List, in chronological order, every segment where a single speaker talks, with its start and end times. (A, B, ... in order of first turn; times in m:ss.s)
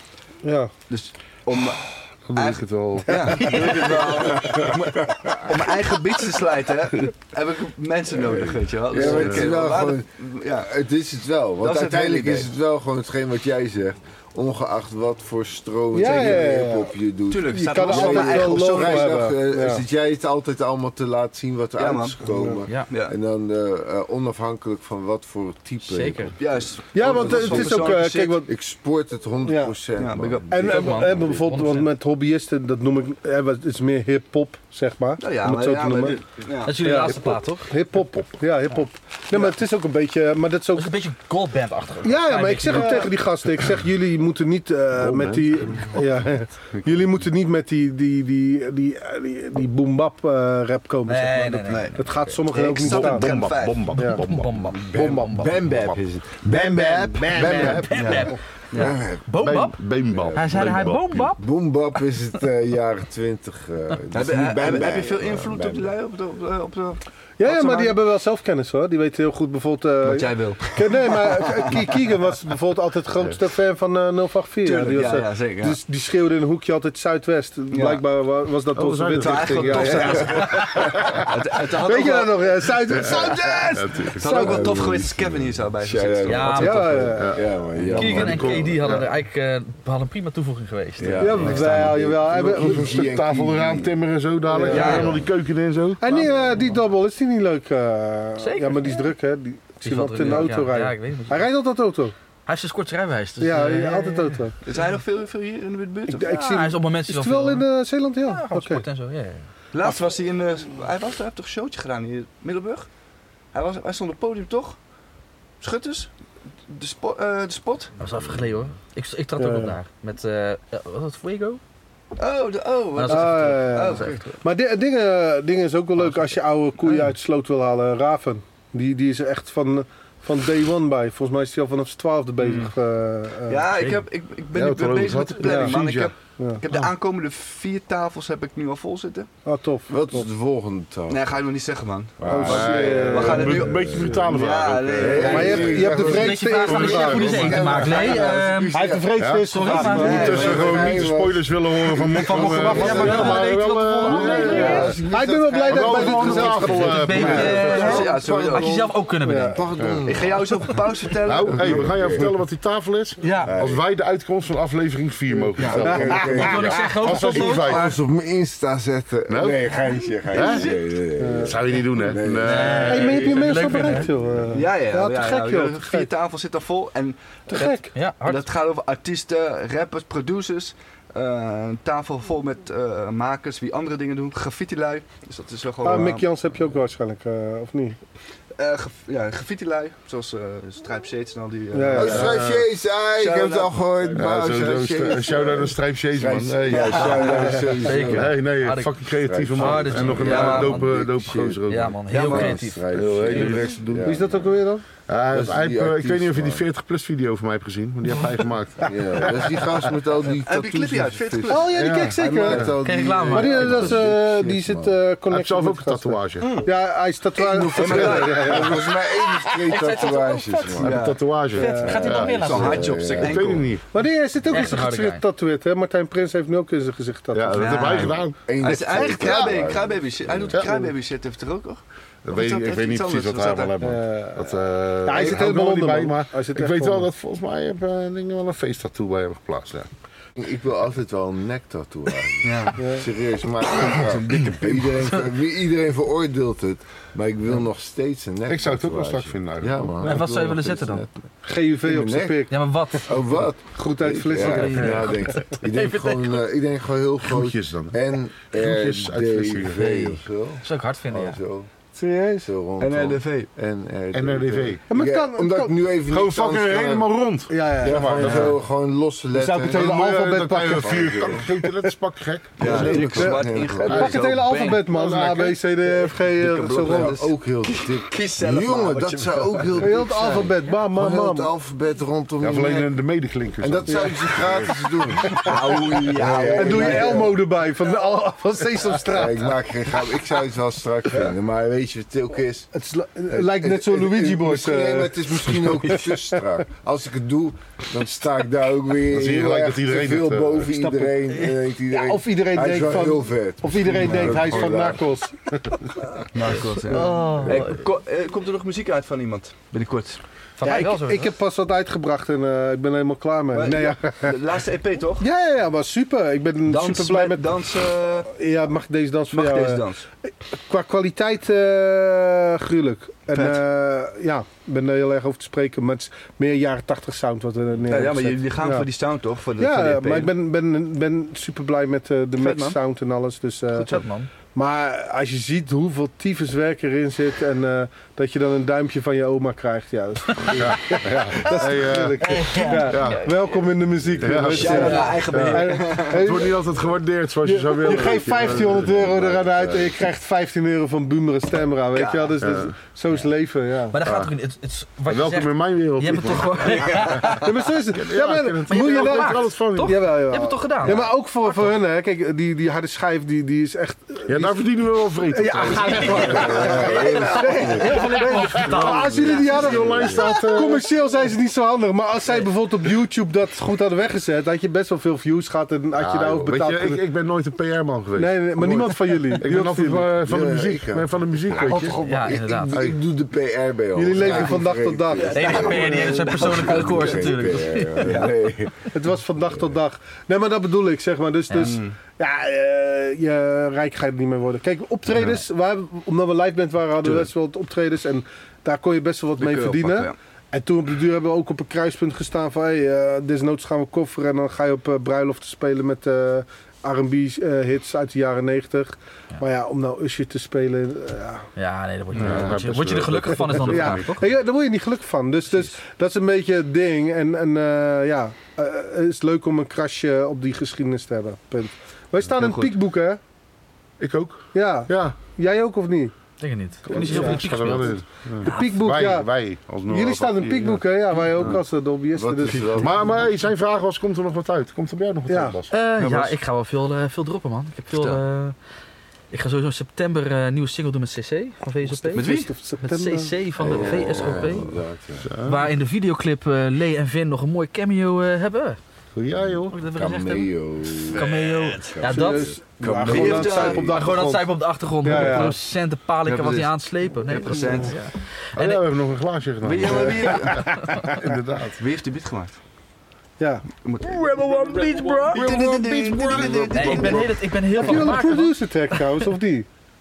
0:00.4-0:00.7 A
0:00.9-0:10.7 B
0:02.3-0:04.0 C
0:03.1-0:03.8 A
0:03.4-0:03.9 D
0:04.2-0:05.4 E
0:08.1-0:26.4 E
0:09.0-0:09.5 C
0:11.6-0:12.5 B
0:15.9-0:16.9 A
0:17.3-0:19.2 B
0:17.5-0:19.8 A
0:21.8-0:22.2 B
0:22.2-0:22.6 A
0:22.9-0:23.1 B
0:25.8-0:26.3 D
0:26.4-0:28.4 B
0:26.9-0:28.5 A
0:27.1-0:27.9 E
0:28.5-0:30.8 E
0:29.4-0:29.8 A
0:30.0-0:31.1 B
0:30.5-0:36.2 A
0:30.5-0:31.9 D
0:35.2-0:36.9 B
0:36.6-0:37.7 D
0:36.8-0:41.0 A
0:40.7-0:43.2 D
0:42.0-0:53.4 A
0:45.0-0:46.1 C
0:51.1-0:52.0 D
0:51.4-0:53.9 B
0:52.7-0:56.0 C
0:54.0-0:54.2 A
0:54.0-0:55.7 D
0:54.7-0:59.2 E
0:56.5-0:58.2 A
0:56.6-0:59.8 D
0:56.8-0:59.0 B
0:59.4-1:01.3 C
1:00.1-1:00.8 E
1:00.3-1:01.4 D
1:01.4-1:05.9 E
1:04.1-1:07.9 B
1:07.4-1:21.0 A
1:10.0-1:11.8 B
1:14.6-1:15.8 B
1:17.7-1:18.0 B
1:18.7-1:21.2 C
1:19.2-1:22.6 B
1:20.4-1:20.7 D
1:21.7-1:24.6 A
1:22.9-1:24.6 C
1:24.2-1:27.2 B
1:24.2-1:28.8 E
1:26.2-1:27.1 D
1:26.5-1:27.4 A
1:27.2-1:29.1 C
1:27.9-1:32.0 D
1:31.0-1:33.9 E
1:31.2-1:32.9 A
1:32.3-1:36.4 C
1:34.5-1:35.1 A
1:34.6-1:35.2 B
1:34.8-1:35.1 E
1:36.0-1:42.1 A
1:36.2-1:36.5 E
1:38.4-1:39.0 D
1:39.8-1:41.5 D
1:42.4-1:44.4 D
1:43.4-1:44.5 A
1:44.6-1:46.3 B
1:46.1-1:48.8 A
1:46.2-1:47.6 D
1:48.2-1:49.4 D
1:49.7-1:52.9 B
1:53.5-1:54.8 B
1:55.6-1:56.1 B
1:56.7-1:57.9 B
1:58.0-2:01.6 D
1:59.4-1:59.8 A
2:02.2-2:04.2 B
2:03.0-2:04.3 D
2:03.0-2:13.6 A
2:12.4-2:12.7 B
2:13.5-2:19.3 B
2:13.8-2:14.0 D
2:14.5-2:16.1 C
2:15.4-2:15.7 A
2:16.6-2:16.9 C
2:19.4-2:20.3 A
2:19.9-2:21.2 E
2:21.1-2:25.8 B
2:22.2-2:29.1 E
2:22.2-2:24.2 A
2:22.3-2:28.2 C
2:25.2-2:27.5 A
2:25.9-2:30.6 D
2:28.7-2:30.5 A
2:29.2-2:35.0 C
2:29.7-2:31.1 B
2:30.1-2:33.4 E
2:32.1-2:35.0 D
2:32.3-2:38.1 A
2:34.1-2:38.9 E
2:35.7-2:37.8 C
2:36.8-2:39.7 D
2:37.4-2:38.9 B
2:39.2-2:39.6 A
2:39.5-2:40.7 E
2:39.8-2:40.0 C
2:40.0-2:41.9 B
2:41.2-2:47.9 C
2:41.4-2:42.4 E
2:43.2-2:43.6 D
2:43.4-2:43.8 E
2:45.4-2:54.6 E
2:45.6-2:47.9 D
2:45.7-2:46.8 A
2:49.3-2:49.7 C
2:50.3-2:50.7 C
2:50.4-2:50.7 B
2:51.2-2:51.6 A
2:51.4-2:53.3 C
2:52.4-2:54.1 D
2:52.8-2:56.1 A
2:54.5-3:06.3 B
2:57.5-2:57.9 A
2:57.7-2:58.4 D
3:05.8-3:08.0 A
3:08.6-3:12.6 B
3:11.7-3:12.6 A
3:11.9-3:18.4 E
3:13.2-3:14.3 B
3:14.2-3:24.3 C
3:16.7-3:17.6 B
3:17.0-3:18.9 D
3:19.0-3:21.6 E
3:19.5-3:21.1 D
3:20.1-3:20.8 B
3:21.7-3:23.6 D
3:22.1-3:22.6 B
3:22.2-3:24.5 E
3:24.0-3:24.8 A
3:25.1-3:29.9 C
3:25.3-3:26.6 E
3:28.8-3:35.0 E
3:30.4-3:31.9 B
3:31.5-3:32.7 A
3:31.8-3:32.8 C
3:32.8-3:33.8 D
3:33.3-3:38.8 A
3:33.6-3:34.0 C
3:35.3-3:36.6 C
3:37.4-3:39.3 B
3:37.6-3:41.0 E
3:37.7-3:38.8 C
3:39.6-3:40.9 D
3:40.8-3:41.2 B
3:40.8-3:43.8 C
3:41.6-3:43.1 D
3:41.6-3:42.0 A
3:41.8-3:43.7 E
3:42.2-3:43.6 B
3:43.9-3:47.8 A
3:44.4-3:45.2 D
3:47.3-3:48.4 C
3:47.6-3:53.7 B
3:47.7-3:48.0 D
3:48.0-3:50.7 E
3:48.9-3:49.5 C
3:50.5-3:50.8 C
3:52.2-3:59.9 C
3:53.8-3:57.1 A
4:00.4-4:11.1 E
4:02.4-4:02.8 B
4:02.8-4:03.0 A
4:03.9-4:05.0 D
4:08.5-4:10.2 C
4:10.0-4:11.1 D
4:11.4-4:12.6 A
4:11.8-4:21.7 E
4:12.5-4:13.1 D
4:13.7-4:15.3 A
4:14.4-4:15.2 C
4:14.4-4:16.4 D
4:17.2-4:18.0 C
4:18.5-4:19.8 C
4:19.7-4:21.4 D
4:21.9-4:22.5 A
4:22.4-4:27.1 E
4:22.8-4:23.5 B
4:24.1-4:24.8 C
4:24.9-4:25.7 A
4:26.1-4:28.5 C
4:27.5-4:28.5 A
4:27.8-4:31.4 E
4:28.2-4:28.5 B
4:29.3-4:31.9 A
4:29.6-4:33.4 C
4:32.6-4:34.1 E
4:32.6-4:34.9 B
4:32.7-4:37.2 A
4:33.9-4:34.3 C
4:34.8-4:35.6 C
4:35.8-4:40.0 B
4:36.8-4:42.9 E
4:39.8-4:41.5 A
4:42.4-4:44.8 C
4:43.6-4:47.3 E
4:43.9-4:44.2 A
4:45.4-4:47.3 B
4:46.5-4:49.5 A
4:49.0-4:52.7 E
4:52.7-4:56.4 A
4:53.3-5:05.0 E
4:59.1-5:01.1 C
5:01.9-5:05.9 A
5:06.3-5:10.2 B
5:06.8-5:07.8 D
5:06.9-5:07.4 A
5:10.6-5:11.3 D
5:10.6-5:14.4 A
5:13.5-5:15.2 B
5:15.2-5:17.5 A
5:16.7-5:18.3 B
5:18.3-5:19.8 A
5:19.3-5:20.0 B
5:20.5-5:28.8 A
5:23.3-5:23.6 B
5:27.9-5:30.3 B
5:29.6-5:46.6 A
5:32.4-5:32.8 B
5:33.7-5:34.3 D
5:40.4-5:43.3 C
5:42.2-5:43.2 D
5:44.2-5:49.2 C
5:44.5-5:46.5 B
5:44.7-5:45.4 D
5:47.4-5:54.0 A
5:47.9-5:50.0 E
5:52.0-5:52.3 B
5:52.4-5:52.7 C
5:53.9-5:57.5 D
5:54.0-5:54.3 C
5:55.1-6:00.0 C
5:57.3-6:17.0 A
5:58.7-6:01.7 D
6:04.3-6:07.1 C
6:05.7-6:09.7 D
6:06.1-6:08.1 E
6:06.5-6:10.1 B
6:08.4-6:10.8 C
6:09.4-6:10.3 E
6:16.0-6:22.0 C
6:18.2-6:20.1 A
6:20.2-6:28.8 E
6:21.7-6:22.0 A
6:21.9-6:22.8 D
6:23.9-6:26.5 A
6:25.1-6:27.4 B
6:25.3-6:28.3 D
6:28.0-6:28.3 B
6:28.9-6:51.5 A
6:31.5-6:31.8 D
6:31.6-6:31.9 B
6:37.0-6:37.3 B
6:39.4-6:40.1 B
6:51.6-6:54.2 D
6:52.1-6:52.4 B
6:52.1-6:54.1 C
6:53.4-7:03.2 A
7:02.3-7:02.7 B
7:04.0-7:05.2 C
7:04.5-7:06.1 A
7:06.4-7:08.8 D
7:06.8-7:10.8 C
7:06.9-7:07.4 A
7:08.4-7:09.3 A
7:09.8-7:12.9 A
7:12.1-7:13.3 E
7:12.7-7:15.7 C
7:15.3-7:15.6 A
7:15.7-7:18.6 D
7:16.0-7:16.3 B
7:17.9-7:18.2 B
7:19.3-7:24.7 D
7:21.8-7:23.3 A
7:22.1-7:22.5 B
7:23.6-7:25.3 E
7:25.2-7:25.7 C
7:25.4-7:28.8 D
7:29.1-7:29.8 C
7:29.4-7:31.3 E
7:29.7-7:30.5 D
7:31.1-7:32.5 D
7:31.1-7:31.9 B
7:31.9-7:34.0 E
7:32.1-7:35.6 A
7:32.8-7:33.9 B
7:33.0-7:38.8 D
7:35.1-7:35.5 B
7:36.2-7:38.0 B
7:38.6-7:41.8 C
7:39.6-7:40.6 B
7:39.9-7:41.1 A
7:40.6-7:41.1 D
7:41.8-7:42.6 B
7:43.4-7:43.6 A
7:43.8-7:47.8 B
7:44.0-7:49.2 D
7:45.3-7:49.7 A
7:46.3-7:46.6 C